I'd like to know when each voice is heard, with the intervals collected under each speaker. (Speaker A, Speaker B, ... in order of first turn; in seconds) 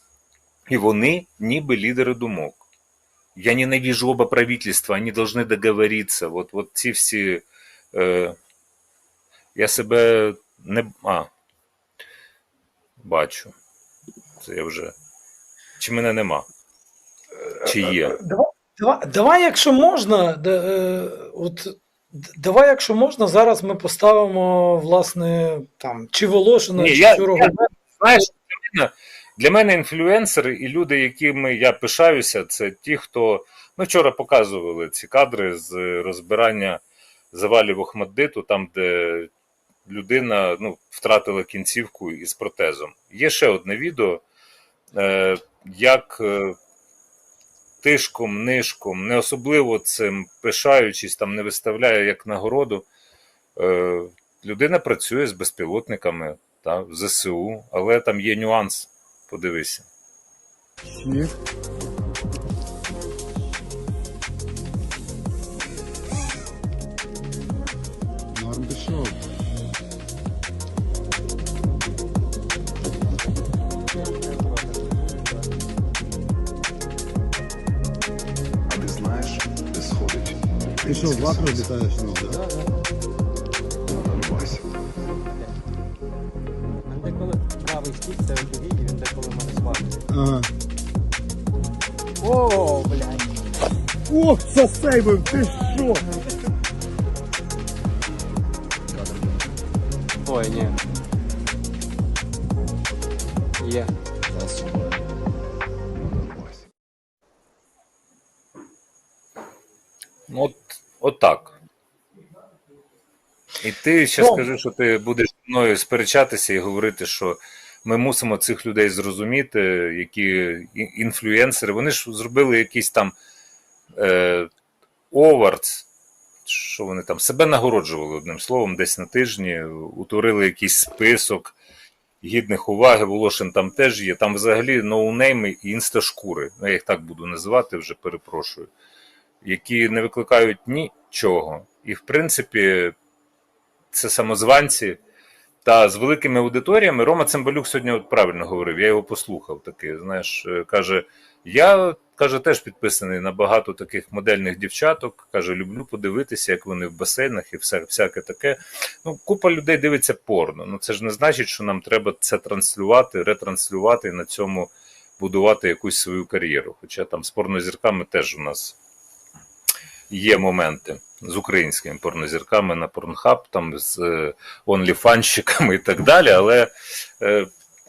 Speaker A: 0.7-2.6, 3.4-8.4, 9.6-11.3, 13.0-13.5, 14.4-14.9, 15.8-16.5, 17.6-18.2, 26.8-39.3, 39.9-44.2, 44.9-46.6, 47.8-52.9, 53.6-59.9, 110.3-111.5, 113.6-123.1, 124.0-124.5, 125.1-125.9, 126.5-131.6, 132.2-138.7, 139.4-142.9, 143.9-145.0, 145.6-168.8, 170.1-177.5
Speaker B: 17.8-27.7
Speaker C: 60.9-61.3, 68.3-69.2, 80.8-82.4, 90.1-90.5, 94.1-96.1, 104.4-104.9
Speaker D: 74.1-75.5, 86.9-90.0, 92.2-93.3, 100.3-100.8, 103.6-103.9
Speaker E: 78.7-81.7, 83.9-84.8